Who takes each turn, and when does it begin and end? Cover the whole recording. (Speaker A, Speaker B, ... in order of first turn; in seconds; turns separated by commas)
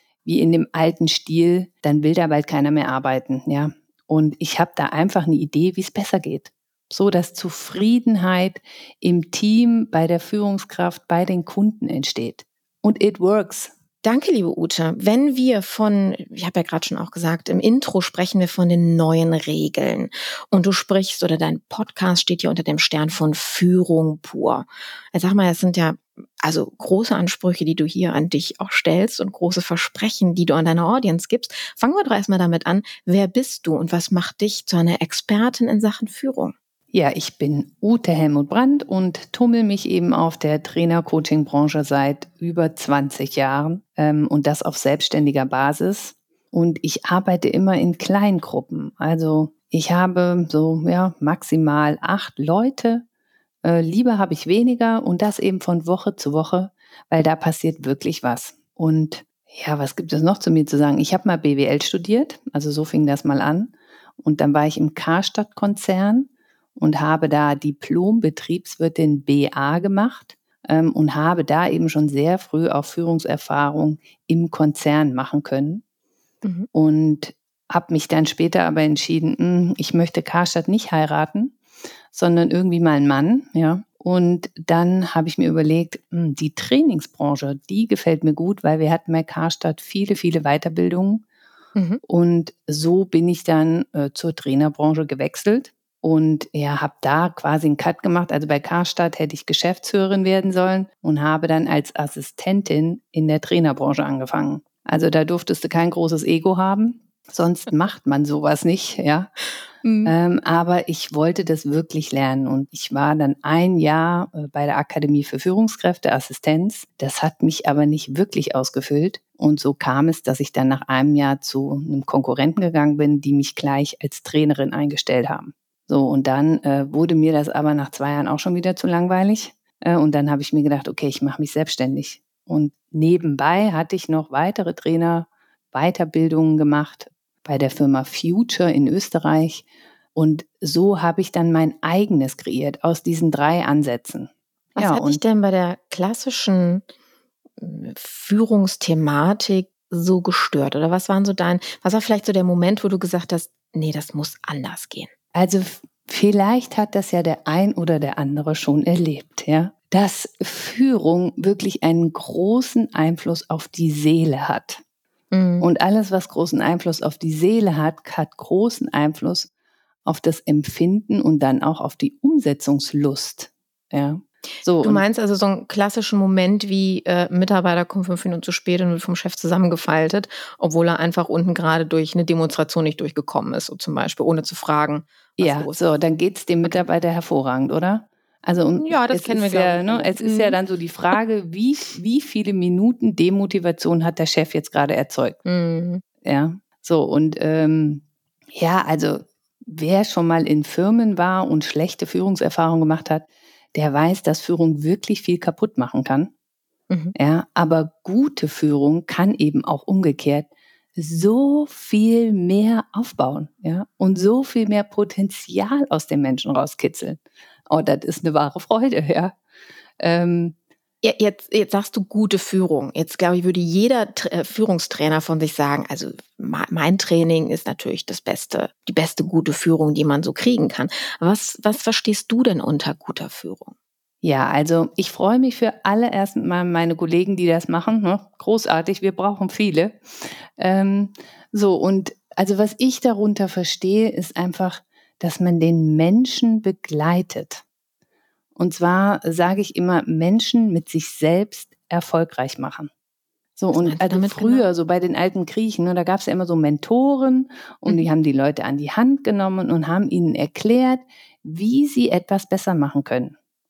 Speaker A: 0.2-13.7, Speaker B: 14.0-36.5, Speaker A: 36.9-53.0, Speaker A: 53.6-75.8, Speaker A: 76.7-81.5, Speaker A: 82.1-91.2, Speaker B: 91.8-92.0, Speaker A: 92.0-109.3, Speaker B: 109.8-110.1, Speaker A: 110.0-145.2, Speaker B: 144.8-146.8, Speaker B: 147.6-155.1, Speaker A: 155.3-164.8, Speaker B: 165.3-165.7, Speaker A: 165.6-169.5, Speaker A: 170.0-175.0, Speaker B: 174.8-185.8, Speaker A: 185.4-195.4, Speaker B: 188.8-190.6, Speaker B: 195.4-196.0, Speaker A: 196.2-198.0, Speaker A: 198.5-206.3, Speaker B: 206.9-207.1, Speaker A: 207.2-219.3, Speaker A: 220.0-220.6, Speaker B: 221.0-233.7, Speaker A: 234.2-247.6, Speaker A: 248.6-252.9, Speaker A: 253.6-263.3, Speaker B: 253.8-254.7